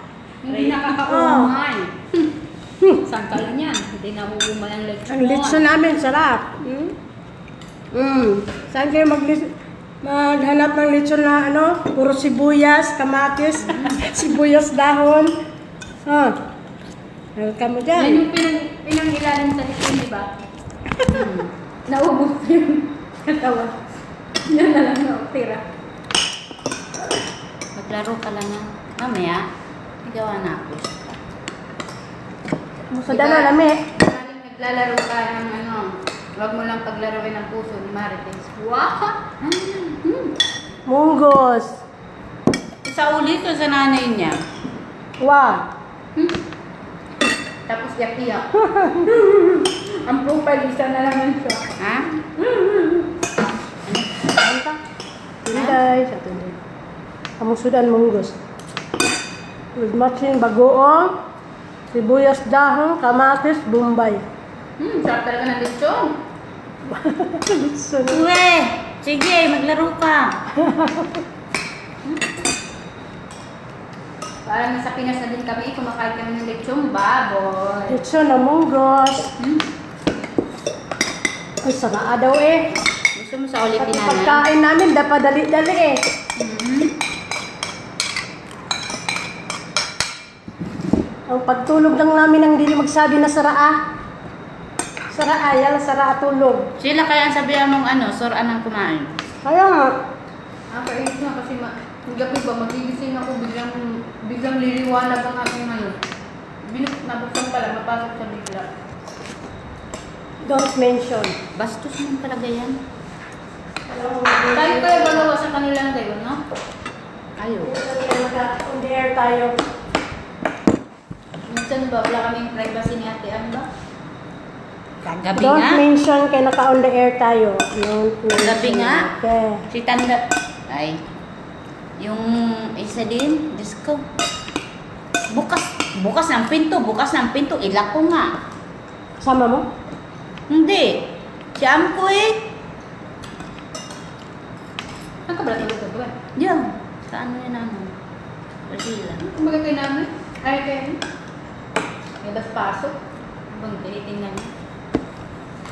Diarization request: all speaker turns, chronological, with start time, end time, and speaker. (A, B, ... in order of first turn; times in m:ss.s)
0:00.4-0:02.0 A
0:01.0-0:01.5 B
0:02.9-0:05.7 A
0:05.1-0:07.0 B
0:07.9-0:15.4 B
0:16.0-0:16.4 B
0:17.4-0:18.2 B
0:17.9-0:20.3 A
0:21.1-0:23.8 A
0:21.1-0:21.5 C
0:24.4-0:25.6 A
0:27.7-0:29.4 C
0:30.0-0:30.9 C
0:32.9-0:33.8 B
0:33.1-0:40.3 A
0:40.9-0:41.8 B
0:42.8-0:44.4 C
0:45.2-0:45.6 B
0:47.7-0:51.7 A
0:48.6-0:49.1 B
0:51.8-0:52.2 C
0:52.4-0:53.1 A
0:53.8-0:54.1 C
0:54.4-0:54.8 B
0:55.4-0:56.6 B
0:57.4-0:58.4 B
0:59.8-1:01.2 B
1:01.9-1:04.2 B
1:04.8-1:06.2 A
1:06.9-1:08.2 B
1:08.0-1:10.3 C
1:10.6-1:11.1 B
1:14.4-1:18.0 A
1:17.9-1:19.3 B
1:21.6-1:22.7 B
1:23.1-1:24.4 C
1:23.8-1:26.0 B
1:26.4-1:26.9 C
1:31.3-1:33.8 B
1:35.1-1:36.7 B
1:36.8-1:39.1 C
1:39.4-1:40.0 B
1:40.7-1:46.0 A
1:46.6-1:48.7 A
1:50.4-1:51.4 B
1:51.5-1:52.8 C
1:53.9-1:55.3 B
1:54.5-1:56.4 A
1:57.4-1:57.7 C
1:57.6-1:59.6 B
2:01.5-2:03.7 A
2:05.0-2:05.8 C
2:05.3-2:09.6 B
2:08.4-2:09.1 C
2:09.7-2:11.0 C
2:12.0-2:14.0 C
2:15.3-2:18.3 C
2:19.2-2:19.7 B
2:20.5-2:22.4 C
2:25.3-2:26.2 A
2:26.4-2:27.9 C
2:28.7-2:29.2 C
2:29.2-2:31.0 A
2:32.2-2:33.0 A
2:33.5-2:34.5 A